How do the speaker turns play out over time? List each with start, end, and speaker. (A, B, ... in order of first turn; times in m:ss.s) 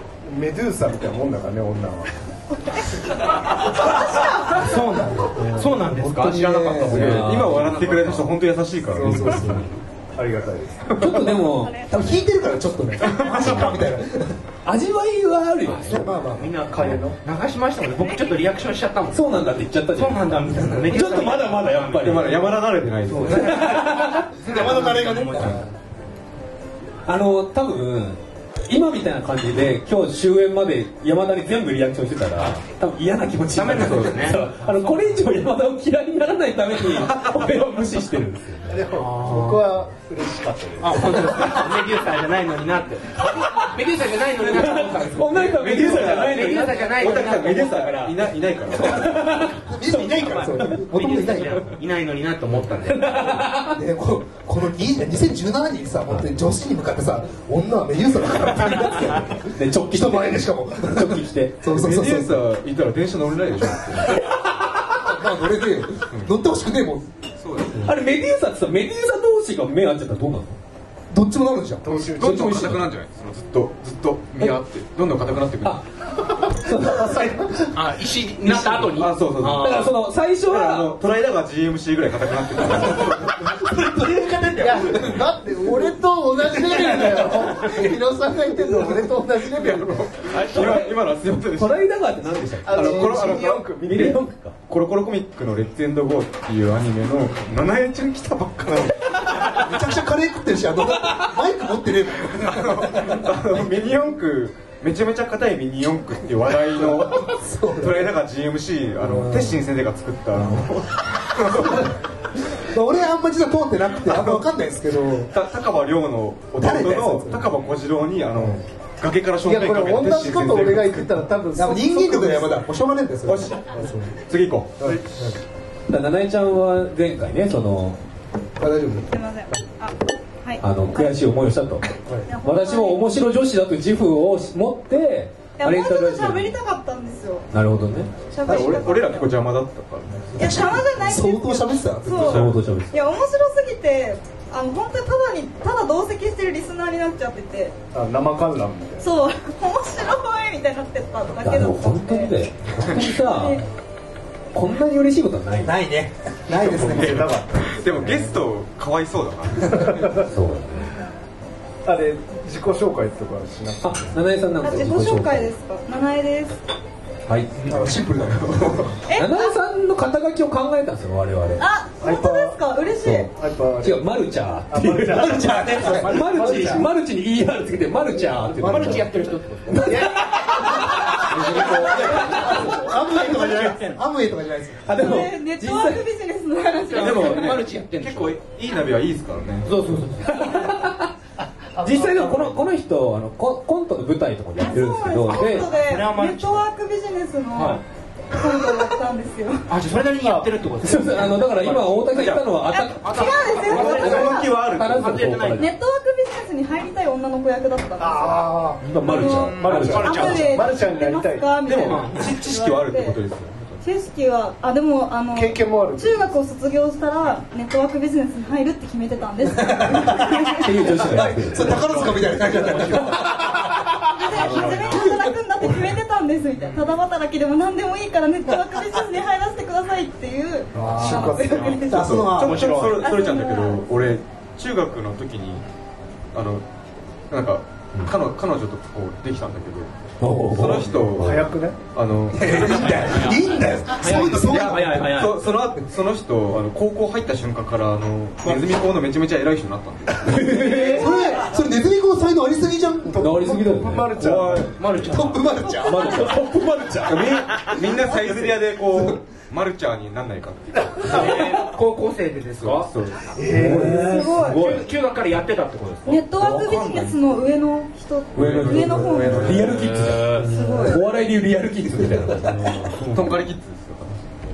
0:00.2-0:02.1 A
0:03.7-0:04.8 B
0:04.6-0:07.2 C
0:04.9-0:07.4 D
0:06.6-0:09.7 E
0:06.8-0:08.2 F
0:08.9-0:09.7 D
0:10.2-0:11.1 A
0:11.0-0:11.9 F
0:11.5-0:12.1 B
0:11.9-0:14.4 D
0:13.4-0:13.7 E
0:14.6-0:16.0 F
0:15.6-0:22.3 C
0:15.8-0:17.0 D
0:16.6-0:17.2 A
0:19.1-0:22.4 F
0:20.5-0:20.9 D
0:22.0-0:23.7 E
0:23.1-0:24.3 F
0:23.5-0:25.7 D
0:24.4-0:25.6 C
0:27.1-0:38.9 F
0:33.6-0:34.5 C
0:38.7-0:41.4 A
0:39.0-0:39.6 C
0:40.8-0:48.4 C
0:44.4-0:47.2 F
0:45.4-0:49.3 E
0:48.8-0:49.6 F
0:49.6-0:51.7 D
0:49.7-0:53.5 C
0:53.0-0:53.8 F
0:53.6-1:02.4 D
0:59.6-1:01.6 F
1:01.7-1:04.2 E
1:04.4-1:05.0 F
1:05.0-1:07.2 D
1:07.4-1:07.9 E
1:07.8-1:10.6 F
1:11.1-1:11.8 D
1:11.8-1:12.5 A
1:12.1-1:15.8 E
1:12.2-1:12.9 F
1:16.5-1:17.5 F
1:17.7-1:19.9 C
1:18.5-1:23.7 E
1:19.6-1:21.0 F
1:22.6-1:29.1 D
1:24.6-1:30.1 A
1:29.5-1:31.9 E
1:30.3-1:31.0 F
1:31.6-1:34.6 F
1:32.6-1:34.2 A
1:32.7-1:33.7 E
1:34.7-1:39.6 E
1:39.6-1:43.4 D
1:42.4-1:52.0 E
1:47.2-1:48.1 D
1:49.0-1:49.6 D
1:51.5-1:52.0 D
1:52.6-1:55.3 D
1:54.0-1:54.4 E
1:55.3-2:01.2 E
1:56.6-1:57.6 D
1:58.4-1:58.6 D
1:59.4-2:02.6 A
2:01.6-2:04.2 D
2:03.3-2:05.0 E
2:04.8-2:05.4 D
2:05.9-2:08.0 F
2:08.6-2:09.6 D
2:09.1-2:11.2 B
2:10.6-2:11.9 F
2:12.3-2:13.1 B
2:12.4-2:16.6 F
2:15.6-2:17.5 B
2:17.5-2:18.1 F
2:18.3-2:19.4 B
2:18.4-2:20.4 E
2:18.5-2:19.0 D
2:20.3-2:22.6 D
2:20.4-2:27.8 B
2:22.2-2:23.0 F
2:27.9-2:29.1 A
2:29.0-2:32.4 B
2:31.4-2:33.6 F
2:33.2-2:33.7 B
2:34.5-2:35.8 F
2:35.6-2:37.3 D
2:36.5-2:38.4 A
2:36.8-2:40.1 E
2:39.8-2:40.2 A
2:40.2-2:40.9 F
2:41.8-2:44.1 A
2:43.8-2:45.5 F
2:44.6-2:46.6 B
2:47.3-2:47.6 F
2:47.6-2:49.0 E
2:47.7-2:49.0 D
2:49.1-2:49.6 B
2:49.2-2:51.6 F
2:51.6-2:53.3 B
2:52.0-2:52.6 A
2:53.0-2:53.3 F
2:53.3-2:54.1 A
2:53.8-2:59.1 F
2:54.7-2:56.9 A
2:55.1-2:56.2 D
2:56.1-2:56.8 C
2:58.1-2:59.0 A
2:58.6-3:00.2 C
2:58.6-2:59.1 D
2:59.7-3:00.7 A
2:59.9-3:02.7 F
3:00.5-3:01.6 D
3:01.2-3:02.3 E
3:01.4-3:02.1 A
3:01.6-3:04.0 C
3:02.1-3:05.0 D
3:04.8-3:06.0 F
3:04.9-3:07.7 B
3:06.9-3:08.4 C
3:06.9-3:07.6 F
3:07.2-3:10.1 E
3:09.6-3:10.5 C
3:09.9-3:11.1 F
3:11.8-3:12.7 A
3:11.8-3:15.7 F
3:14.6-3:19.7 B
3:15.6-3:16.6 C
3:17.6-3:17.8 C
3:19.7-3:22.3 C
3:20.2-3:20.5 A
3:20.8-3:25.7 F
3:22.1-3:22.5 E
3:22.7-3:24.7 B
3:23.0-3:25.7 C
3:23.6-3:25.6 E
3:25.6-3:28.5 B
3:28.0-3:31.5 A
3:28.8-3:30.4 F
3:29.0-3:33.2 B
3:29.5-3:30.6 E
3:29.8-3:30.5 C
3:31.6-3:33.8 E
3:31.8-3:32.3 C
3:33.8-3:41.3 B
3:35.3-3:36.4 A
3:39.4-3:43.6 D
3:40.6-3:41.8 F
3:41.6-3:43.6 C
3:41.8-3:43.2 E
3:44.1-3:52.3 B
3:44.3-3:45.0 C
3:44.4-3:44.8 E
3:46.6-3:47.0 C
3:50.7-3:52.7 D
3:51.1-3:51.6 A
3:51.3-3:53.1 C
3:51.5-3:55.6 E
3:52.8-3:53.9 B
3:56.3-3:56.6 E
3:57.3-3:59.9 E
4:00.2-4:01.4 F
4:00.2-4:00.8 D
4:00.5-4:03.4 E
4:01.2-4:01.8 A
4:02.3-4:05.1 D
4:03.9-4:05.5 C
4:04.4-4:10.5 E
4:10.2-4:11.2 F
4:10.4-4:11.4 A
4:10.7-4:13.4 D
4:13.0-4:14.8 A
4:13.2-4:14.3 F
4:14.1-4:15.1 E
4:14.8-4:16.4 C
4:15.1-4:16.4 D
4:15.7-4:17.2 F
4:17.0-4:21.6 E
4:18.2-4:19.2 D
4:21.0-4:22.9 C
4:21.2-4:21.4 F
4:22.6-4:23.4 E
4:23.4-4:24.6 D
4:23.4-4:24.1 A
4:23.5-4:24.9 F
4:24.0-4:24.7 B
4:24.4-4:26.2 C
4:26.0-4:29.6 B
4:26.4-4:27.4 E
4:28.3-4:30.5 E
4:28.4-4:33.0 F
4:28.6-4:29.6 D
4:29.7-4:30.4 C
4:30.4-4:31.0 D
4:30.5-4:31.0 B
4:32.0-4:32.7 D
4:33.0-4:33.4 C
4:33.1-4:34.2 E